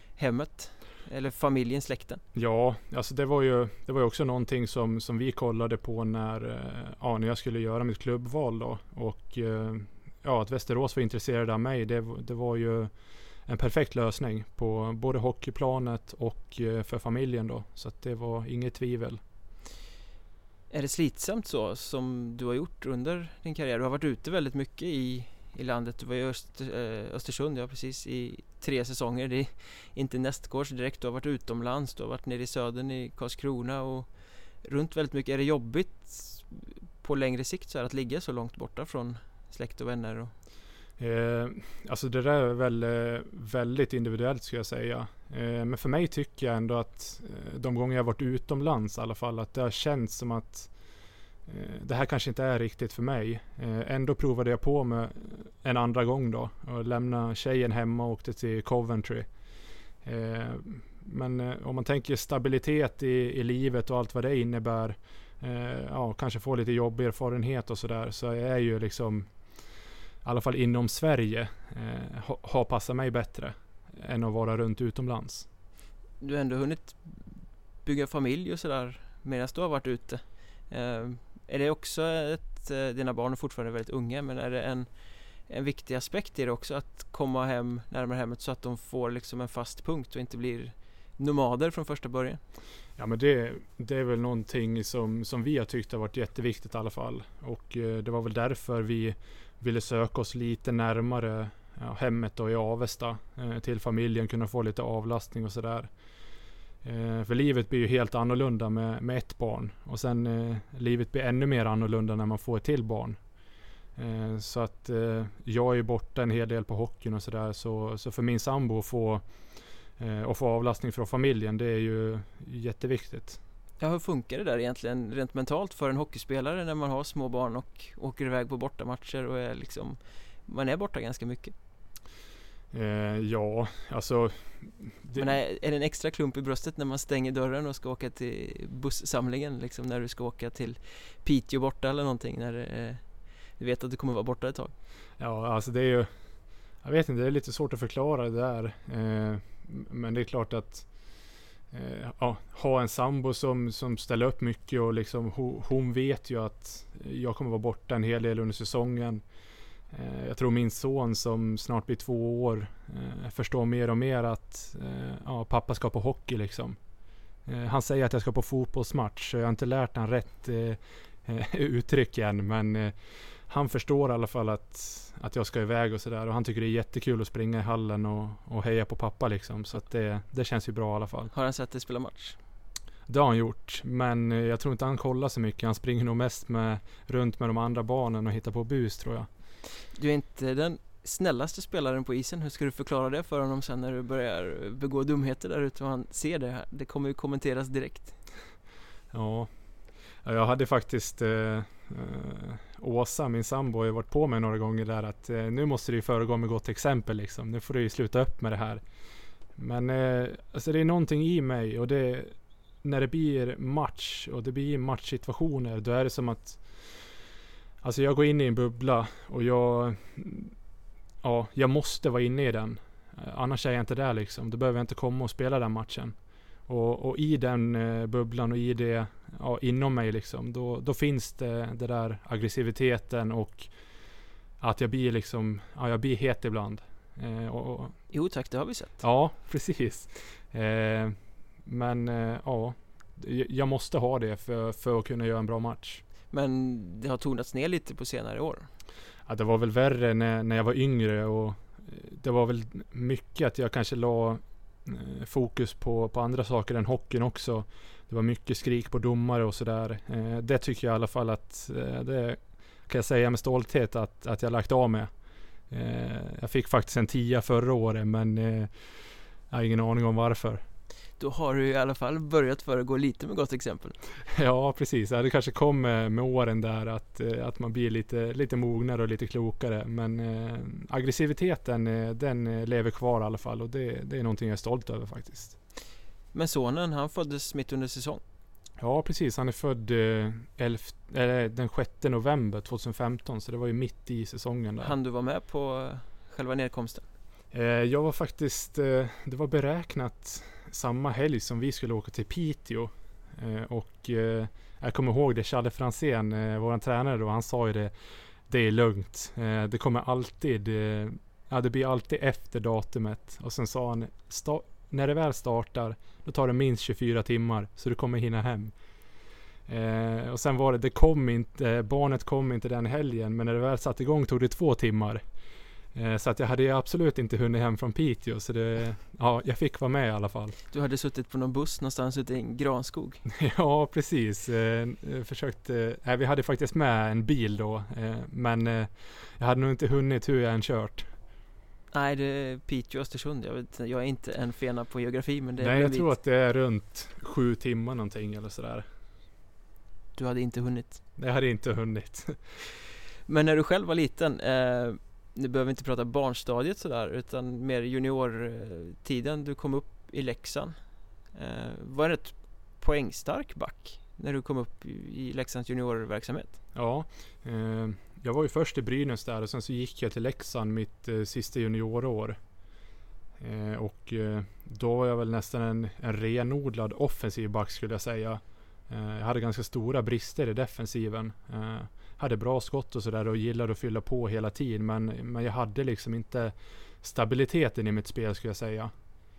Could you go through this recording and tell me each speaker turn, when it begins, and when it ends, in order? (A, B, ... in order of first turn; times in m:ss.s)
0:00.2-0:02.2 A
0:02.4-0:12.9 B
0:13.5-0:19.2 B
0:20.7-0:34.1 A
0:34.6-0:40.3 A
0:41.0-0:50.7 B
0:51.5-0:59.3 B
1:00.0-1:09.3 B
1:10.2-1:15.5 B
1:16.2-1:24.9 A
1:25.5-1:32.4 A
1:33.0-1:45.9 B
1:46.8-1:53.2 B
1:54.0-1:59.2 B
2:00.0-2:03.4 B
2:03.8-2:11.5 A
2:12.7-2:15.3 B
2:15.2-2:23.0 A
2:23.6-2:24.7 A
2:25.2-2:26.1 B
2:26.8-2:30.9 B
2:31.7-2:39.2 B
2:39.9-2:46.8 B
2:47.5-2:52.9 B
2:53.5-3:01.3 B
3:01.3-3:02.4 A
3:03.1-3:09.3 B
3:09.9-3:18.2 A
3:19.1-3:19.5 B
3:20.2-3:28.8 B
3:29.6-3:36.9 B
3:37.8-3:40.6 B
3:41.2-3:46.2 B
3:46.7-3:53.7 B
3:54.6-3:58.0 B
3:58.1-3:59.0 A
3:59.0-4:06.0 B
4:06.3-4:08.7 A
4:09.3-4:25.1 B
4:25.7-4:28.9 B
4:29.5-4:30.6 B
4:31.2-4:34.0 A
4:34.3-4:45.6 B
4:46.3-4:48.2 A
4:48.8-4:55.0 B
4:54.8-4:57.0 A
4:57.5-5:07.9 B
5:08.5-5:18.8 B
5:19.7-5:25.2 B
5:25.9-5:30.6 B
5:30.7-5:33.2 A
5:33.3-5:41.1 B
5:41.9-5:46.1 A
5:45.6-5:48.9 B
5:50.2-5:51.0 A
5:51.2-5:52.6 B
5:53.3-6:00.8 A
6:01.3-6:06.5 A
6:06.8-6:12.4 B
6:13.4-6:28.9 B